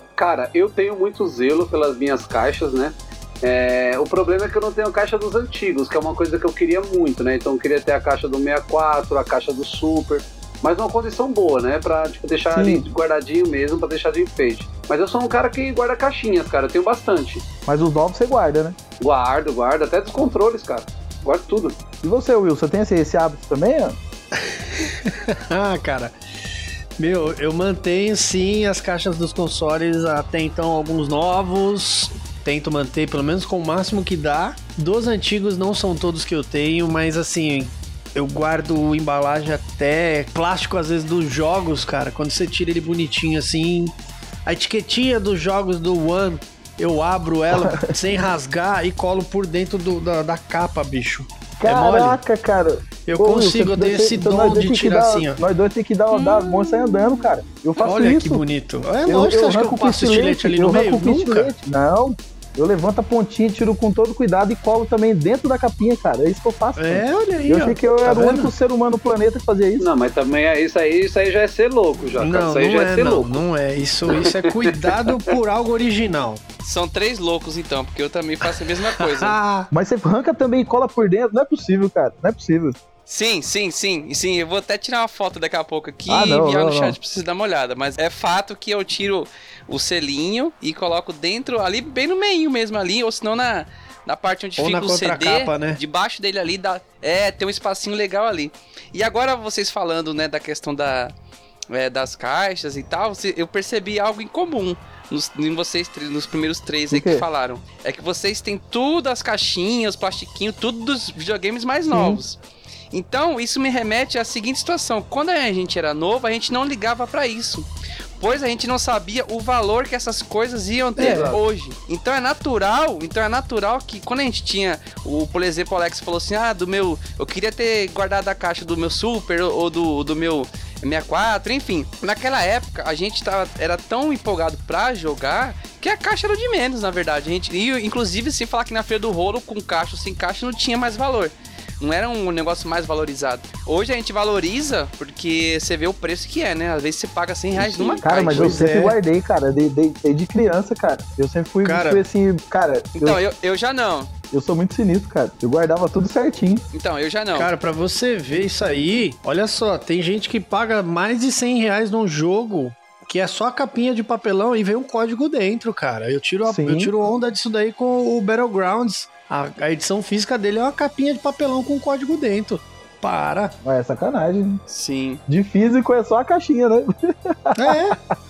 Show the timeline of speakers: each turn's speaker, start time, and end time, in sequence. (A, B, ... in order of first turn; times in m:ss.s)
0:00.2-0:17.4 A
0:12.5-0:12.8 B
0:17.6-0:18.8 B
0:19.0-0:21.8 A
0:22.0-0:24.0 B
0:24.4-0:26.2 C
0:27.0-0:43.9 C
0:44.4-0:52.2 C
0:47.5-0:47.9 B
0:51.6-0:58.4 B
0:53.1-0:55.4 C
0:57.8-1:01.5 C
0:59.0-1:09.9 B
1:06.8-1:08.5 C
1:09.8-1:13.4 A
1:12.2-1:16.4 C
1:14.1-1:15.2 A
1:16.6-1:19.4 D
1:18.4-1:19.7 C
1:19.7-1:22.8 B
1:23.1-1:41.1 D
1:26.0-1:27.0 B
1:34.6-1:35.8 C
1:41.7-1:52.4 D
1:46.9-1:47.2 B
1:51.9-1:52.2 B
1:52.9-1:57.6 D
1:58.2-2:28.6 D
2:01.0-2:01.4 A
2:01.0-2:01.3 B
2:27.6-2:28.0 A
2:28.0-2:33.2 B
2:28.3-2:28.9 C
2:31.6-2:32.0 C
2:33.0-2:34.1 D
2:34.3-2:36.6 B
2:36.7-2:37.5 D
2:37.3-2:53.5 C
2:46.4-2:46.9 B
2:53.6-2:54.6 B
2:54.7-2:55.2 D
2:55.3-2:57.9 B
2:57.6-2:58.0 C